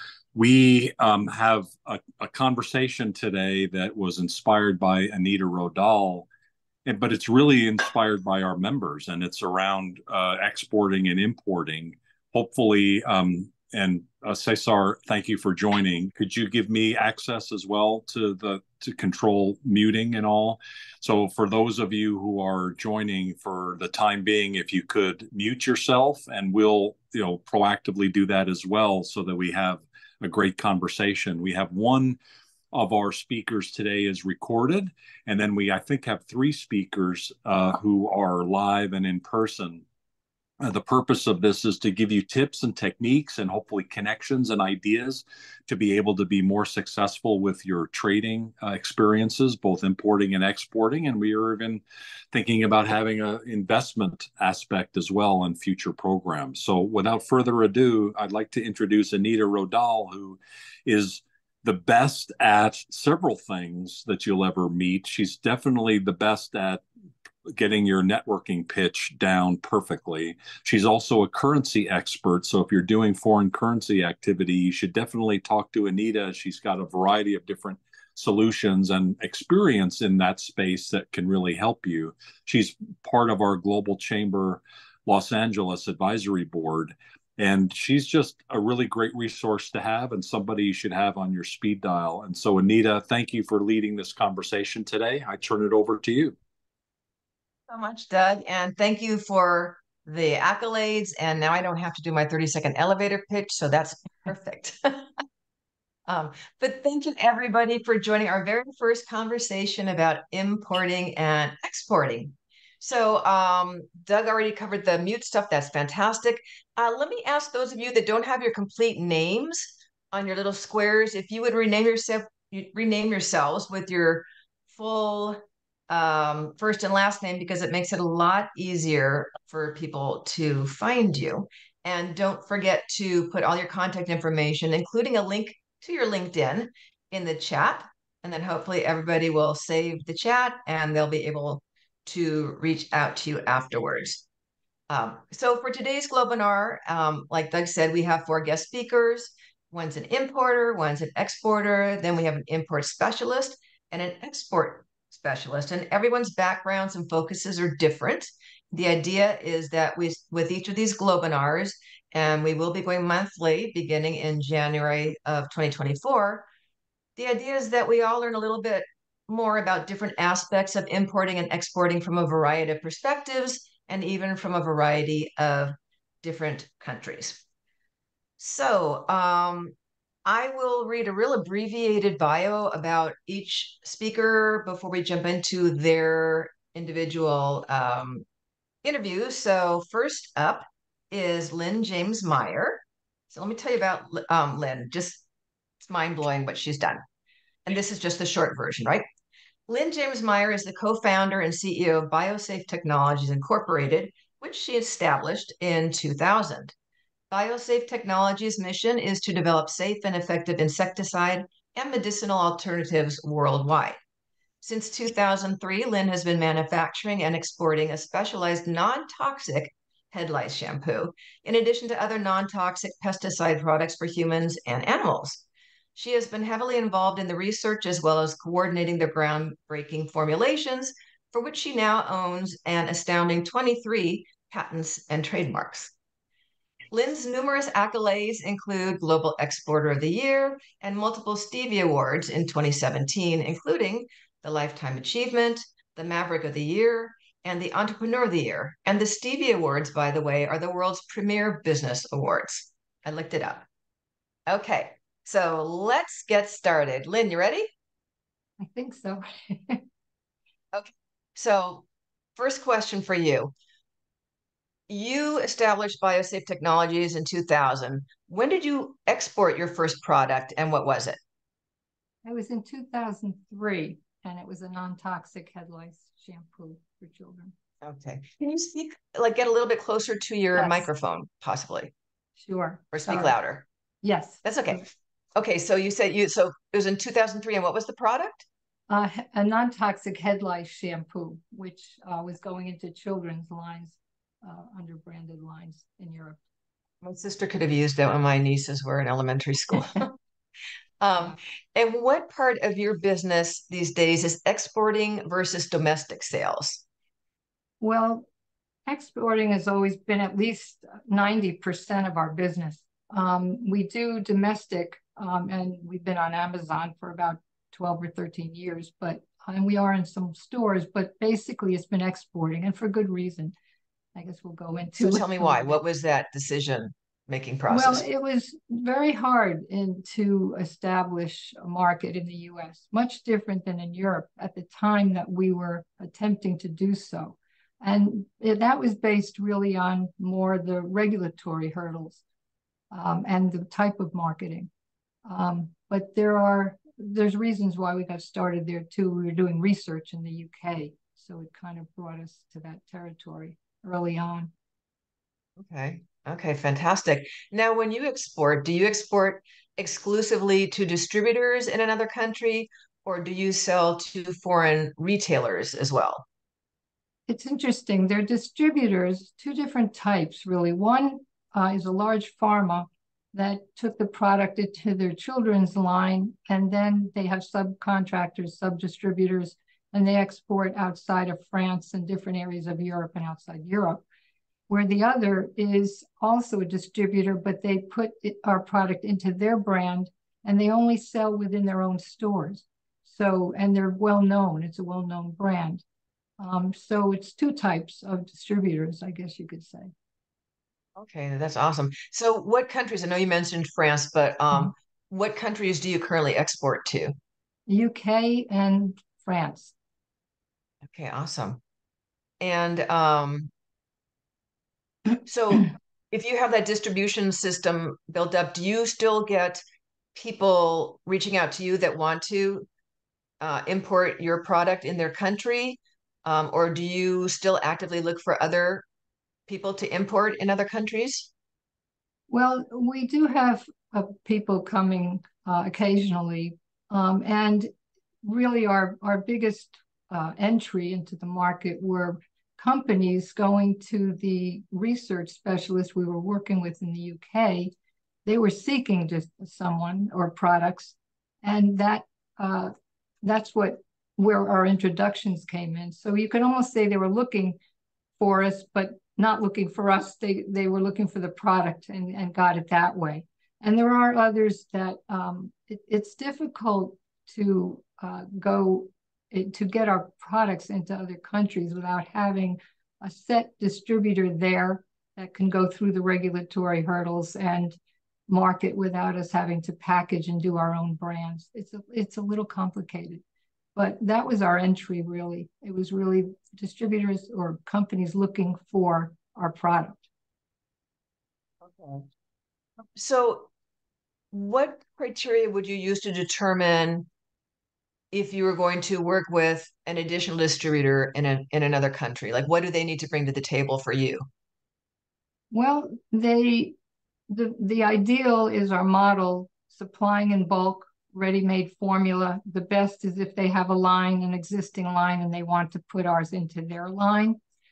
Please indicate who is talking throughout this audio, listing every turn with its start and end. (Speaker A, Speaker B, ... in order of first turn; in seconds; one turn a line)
Speaker A: 0.3-6.3
Speaker A: 6.8-32.2
Speaker A: 32.7-39.8
Speaker A: 40.6-66.8
Speaker A: 67.5-96.3
Speaker B: 97.7-105.0
Speaker B: 106.1-144.2
Speaker B: 144.9-166.5
Speaker B: 167.2-177.4
Speaker B: 178.4-179.7
Speaker B: 180.2-188.2
Speaker B: 188.8-195.2
Speaker B: 195.8-197.0
Speaker B: 197.7-199.1
Speaker B: 199.7-206.7
Speaker B: 207.3-214.0
Speaker B: 214.6-225.4
Speaker B: 225.9-235.9
Speaker B: 236.9-253.6
Speaker B: 254.5-257.7
Speaker C: 258.6-259.8
Speaker B: 260.7-263.5
Speaker B: 264.9-271.2
Speaker C: 272.2-277.5
Speaker B: 277.8-281.9
Speaker C: 280.5-280.9
Speaker C: 282.4-283.4
Speaker B: 282.9-283.6
Speaker C: 284.0-284.8
Speaker B: 284.4-284.8
Speaker B: 285.4-288.4
Speaker C: 288.9-296.4
Speaker B: 297.0-300.1
Speaker B: 301.0-306.8
Speaker C: 307.8-308.3
Speaker C: 308.9-323.5
Speaker C: 324.1-325.8
Speaker B: 324.9-328.1
Speaker C: 327.7-342.2
Speaker C: 342.9-344.7
Speaker C: 345.2-354.5
Speaker B: 355.6-366.2
Speaker C: 367.3-384.0
Speaker C: 384.7-395.8
Speaker C: 396.4-399.9
Speaker B: 400.9-407.1
Speaker C: 407.7-409.7
Speaker B: 410.9-411.6
Speaker B: 412.4-413.5
Speaker B: 415.2-419.6
Speaker B: 420.1-422.7
Speaker B: 423.4-428.8
Speaker B: 429.5-431.3
Speaker C: 432.3-437.7
Speaker C: 438.2-447.7
Speaker C: 448.2-457.6
Speaker C: 458.2-477.8
Speaker C: 478.3-483.2
Speaker C: 483.7-490.0
Speaker B: 491.6-492.0
Speaker B: 492.9-493.5
Speaker B: 494.3-497.1
Speaker B: 498.1-504.2
Speaker C: 505.5-506.8
Speaker C: 507.3-517.4